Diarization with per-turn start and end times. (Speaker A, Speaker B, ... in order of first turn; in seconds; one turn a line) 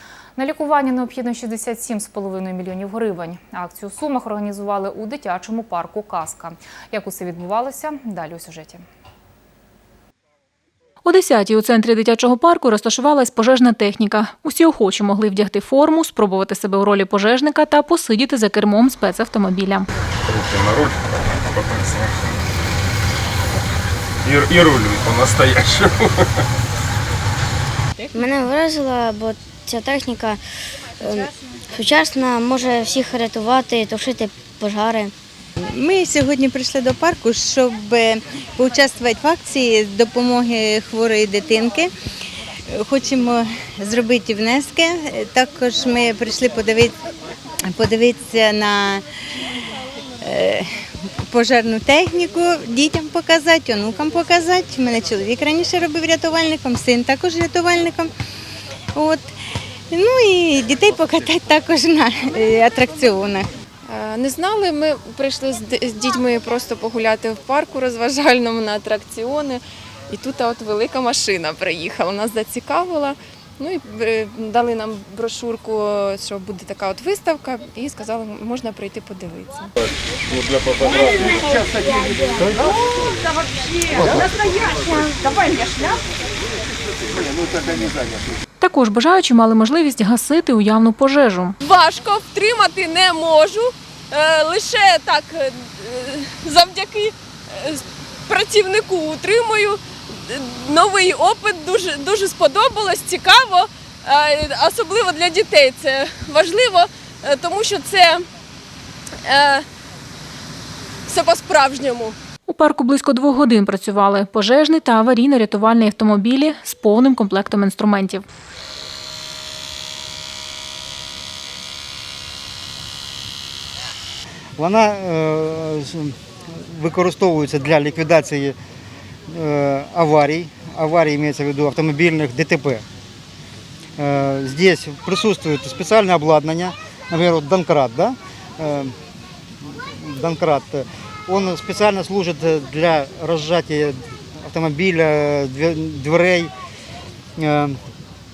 Speaker A: 0.3-8.8
Speaker B: 11.0-19.9
Speaker C: 20.3-22.3
Speaker C: 24.2-26.2
Speaker D: 28.1-30.4
Speaker D: 31.0-35.1
Speaker E: 35.6-41.9
Speaker E: 42.7-46.9
Speaker E: 47.7-49.0
Speaker E: 50.2-50.7
Speaker E: 51.3-58.1
Speaker E: 58.9-59.3
Speaker E: 59.9-63.5
Speaker F: 63.9-79.7
Speaker C: 80.3-81.5
Speaker G: 83.7-86.0
Speaker B: 88.6-91.5
Speaker G: 91.6-108.3
Speaker G: 109.2-109.7
Speaker G: 111.1-112.2
Speaker B: 112.5-118.2
Speaker H: 124.6-128.6
Speaker H: 129.3-132.8
Speaker H: 134.0-138.9
Speaker H: 139.6-146.5
Speaker H: 147.4-147.8